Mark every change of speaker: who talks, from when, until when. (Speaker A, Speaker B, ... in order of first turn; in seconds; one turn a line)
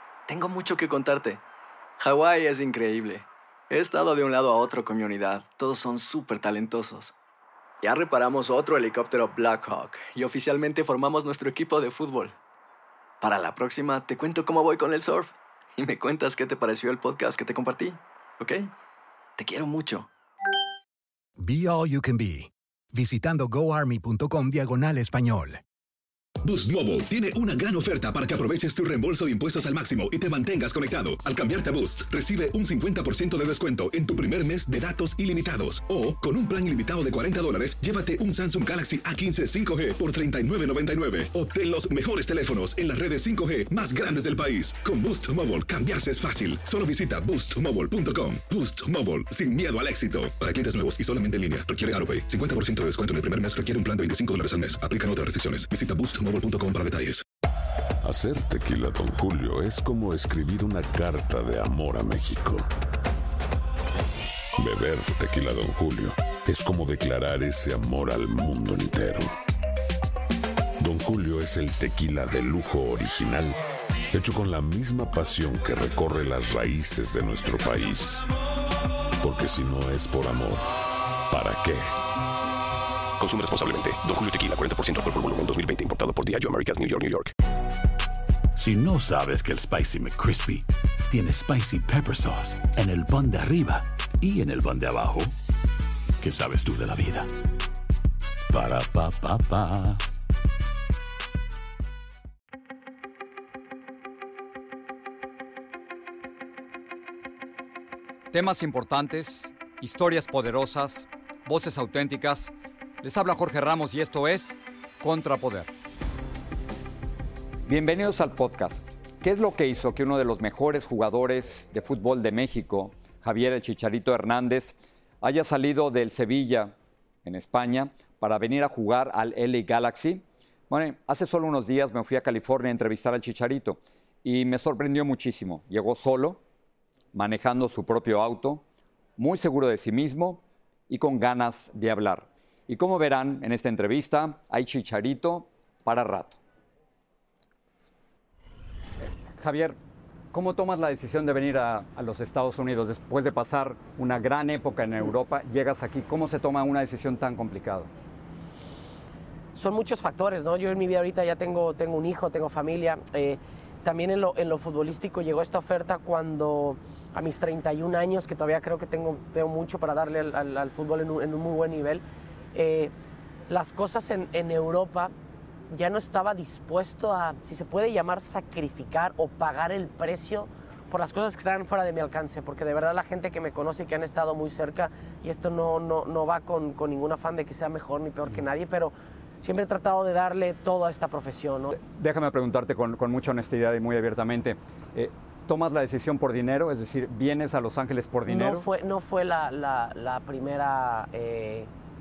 Speaker A: 0.3-1.4
Speaker A: 2.0-7.1
Speaker A: 7.8-12.3
Speaker A: 13.2-18.7
Speaker A: 19.4-20.1
Speaker B: 21.4-25.6
Speaker C: 26.5-57.2
Speaker D: 58.0-62.7
Speaker D: 64.6-69.3
Speaker D: 70.8-73.6
Speaker D: 74.1-78.3
Speaker D: 79.2-80.6
Speaker D: 81.3-81.8
Speaker E: 83.2-87.3
Speaker F: 88.6-95.3
Speaker F: 96.2-97.3
Speaker F: 98.5-100.0
Speaker G: 108.3-115.7
Speaker G: 117.7-136.4
Speaker G: 137.1-138.6
Speaker G: 139.2-146.4
Speaker G: 149.4-149.8
Speaker G: 150.3-157.9
Speaker H: 159.6-172.0
Speaker H: 172.5-172.9
Speaker H: 173.5-175.1
Speaker H: 175.7-191.7
Speaker G: 191.8-198.7
Speaker H: 198.3-201.7